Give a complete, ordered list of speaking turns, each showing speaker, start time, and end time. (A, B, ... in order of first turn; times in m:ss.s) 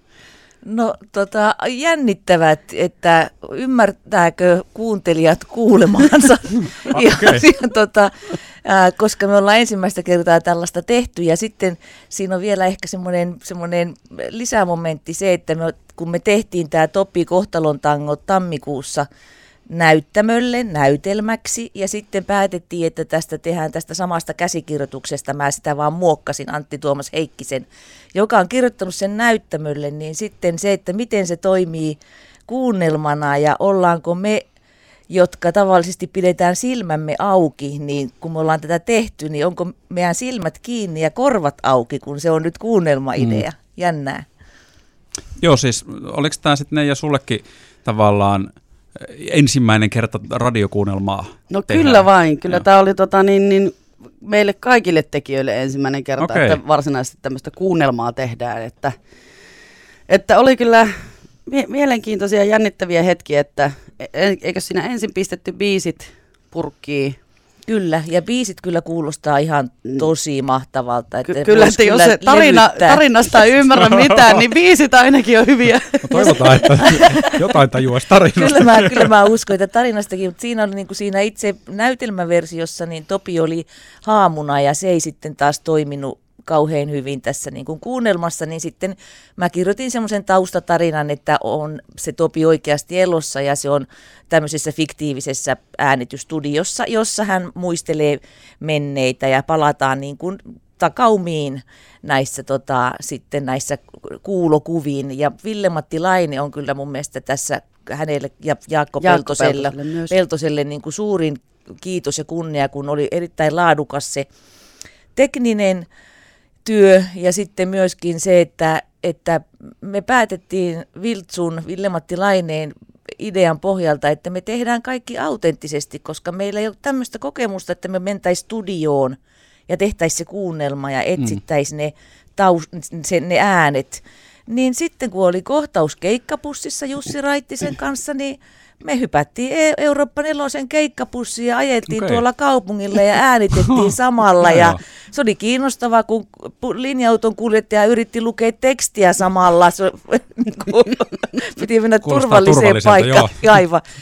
0:00.6-0:19.0 A
0:06.9-0:07.4 B
0:19.7-0:34.4 A
0:35.1-0:44.2 A
0:43.2-0:43.4 B
0:45.4-0:52.6 B
0:51.5-0:58.9 C
0:56.2-0:56.6 B
1:00.1-1:07.2 C
1:07.6-1:13.0 A
1:11.2-1:16.4 C
1:16.0-1:19.1 B
1:16.3-1:17.3 A
1:18.3-1:54.2 A
1:49.0-1:50.1 C
1:55.2-1:55.9 A
1:56.6-2:09.2 A
2:09.7-2:33.8 A
2:21.9-2:22.2 B
2:24.5-2:24.8 B
2:32.0-2:33.4 B